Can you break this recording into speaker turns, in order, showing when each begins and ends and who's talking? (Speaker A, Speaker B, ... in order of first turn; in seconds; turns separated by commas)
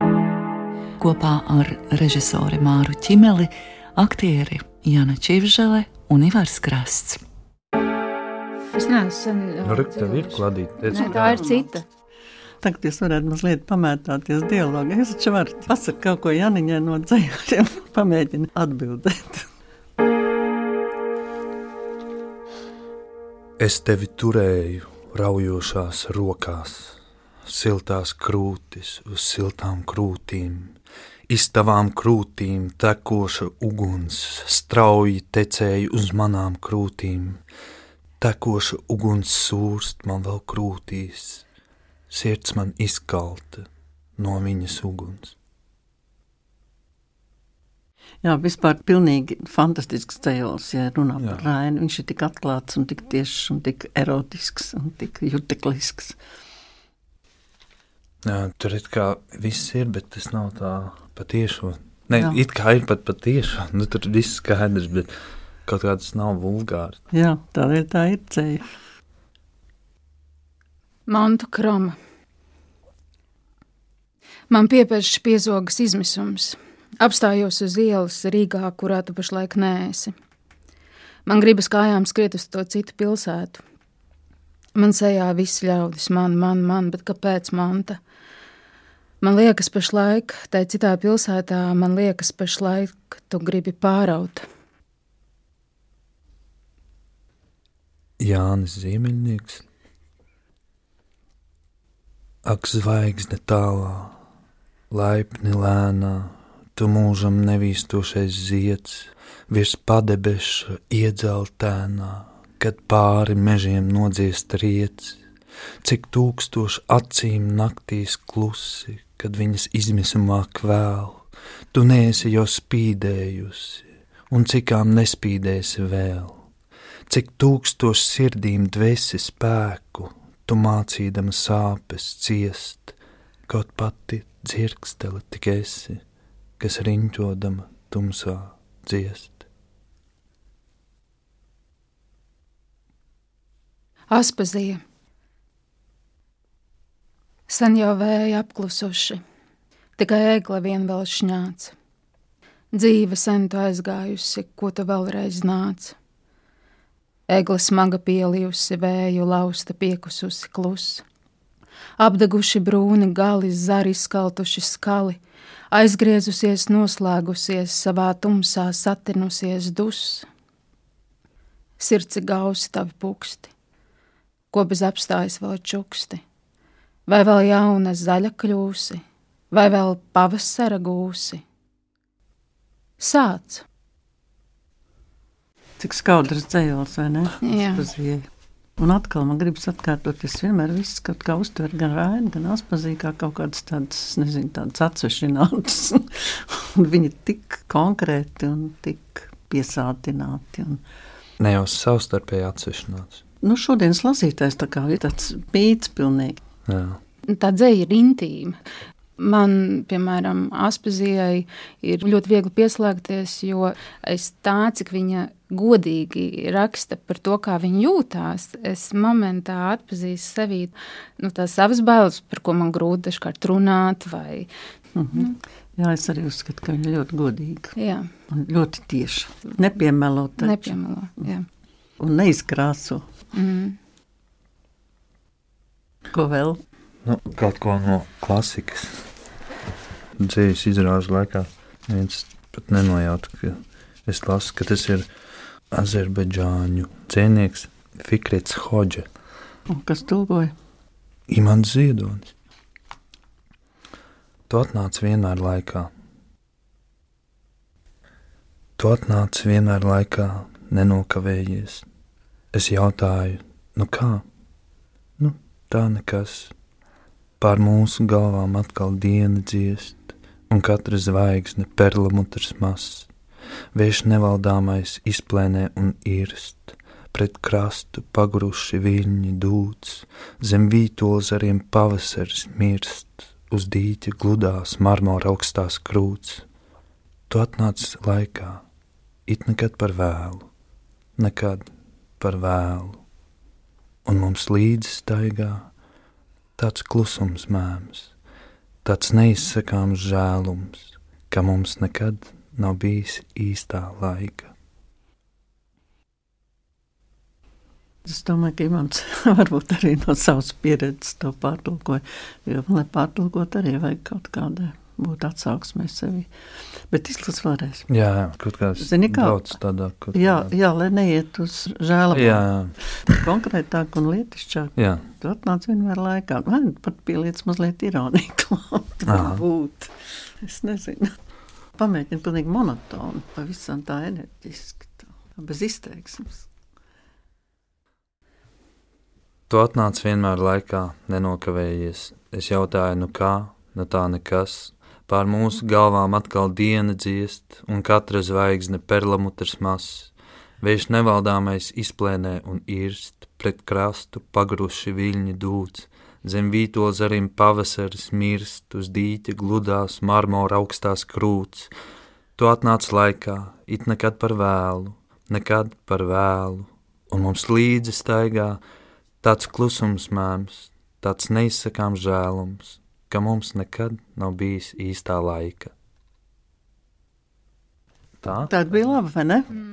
Speaker A: 1.0-7.2, Speaker B: 8.7-11.8, Speaker C: 9.6-11.4, Speaker D: 10.9-11.7, Speaker D: 12.6-19.5, Speaker C: 23.6-30.8, Speaker C: 31.3-37.4, Speaker C: 38.2-41.5, Speaker C: 42.1-45.4, Speaker D: 48.2-56.2, Speaker C: 51.2-51.5, Speaker C: 58.2-65.1, Speaker C: 65.7-67.0, Speaker D: 67.1-68.7, Speaker B: 71.1-72.0, Speaker B: 74.5-80.1, Speaker B: 81.3-83.6, Speaker B: 84.8-88.0, Speaker B: 89.2-94.5, Speaker C: 98.2-99.6, Speaker C: 102.4-104.2, Speaker C: 104.9-115.2, Speaker C: 115.8-126.5, Speaker C: 127.1-132.9, Speaker C: 133.5-136.0, Speaker C: 136.6-139.5, Speaker B: 144.1-144.8, Speaker B: 147.5-149.2, Speaker B: 150.0-151.7, Speaker B: 152.7-156.0, Speaker B: 157.3-161.0, Speaker B: 162.0-165.2, Speaker B: 165.7-170.3, Speaker B: 171.8-173.5, Speaker B: 174.5-176.2, Speaker B: 177.1-181.4, Speaker B: 183.0-183.7, Speaker D: 185.8-188.3, Speaker B: 187.4-187.9, Speaker D: 188.8-200.8, Speaker C: 201.4-203.2, Speaker D: 203.4-206.4, Speaker C: 206.7-207.0, Speaker B: 207.3-208.6, Speaker B: 209.2-224.5, Speaker D: 225.0-227.8, Speaker B: 227.8-228.1, Speaker D: 228.3-230.8, Speaker B: 230.4-231.5, Speaker D: 232.0-233.1, Speaker B: 233.3-233.8, Speaker D: 236.1-236.6, Speaker C: 237.0-239.0, Speaker C: 240.2-245.1, Speaker C: 245.7-249.1, Speaker D: 249.7-250.5, Speaker C: 251.3-252.3, Speaker C: 254.5-255.9, Speaker C: 258.8-261.9, Speaker C: 262.5-264.2, Speaker C: 265.2-266.5, Speaker C: 267.4-273.1, Speaker C: 273.8-286.4, Speaker C: 287.3-288.6, Speaker C: 289.3-290.5, Speaker C: 291.2-293.0, Speaker C: 294.1-295.7, Speaker C: 296.6-298.1, Speaker C: 298.9-304.5, Speaker D: 308.1-316.3, Speaker D: 316.9-317.9, Speaker C: 317.9-320.5, Speaker D: 318.8-319.5, Speaker D: 320.1-331.2, Speaker C: 322.1-322.8, Speaker C: 324.8-325.1, Speaker C: 329.1-329.4, Speaker D: 331.8-336.5, Speaker C: 339.5-361.7, Speaker C: 362.4-368.6, Speaker C: 369.2-375.7, Speaker C: 378.2-378.5, Speaker D: 378.5-379.6